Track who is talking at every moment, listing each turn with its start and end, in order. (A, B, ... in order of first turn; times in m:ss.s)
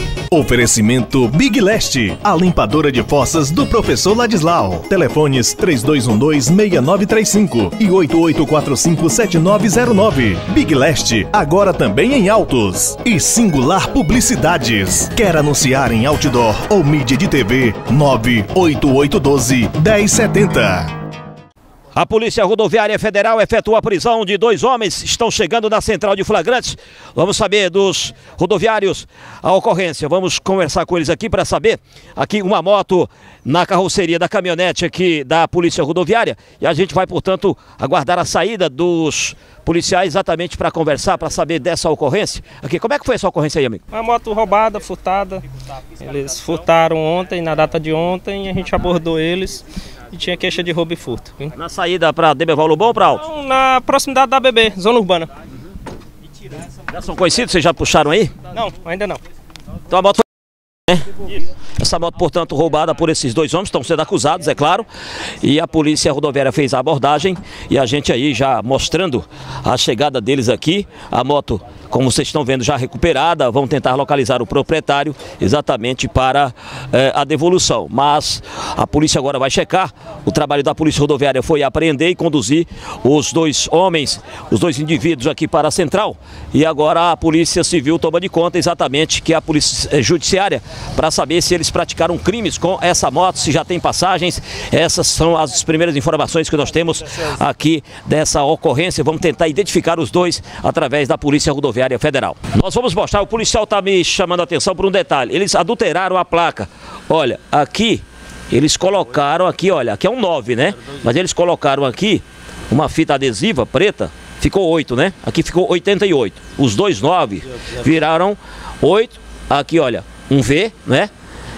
0:00.3-0:20.9 A
0:22.0-0:43.8 B
0:43.9-0:45.4 C
0:46.0-0:51.5 C
0:51.5-0:53.2 B
0:53.2-0:55.3 C
0:56.9-0:58.3 B
0:58.5-0:59.2 C
0:59.9-1:00.2 B
1:00.9-1:04.9 B
1:05.4-2:01.1 B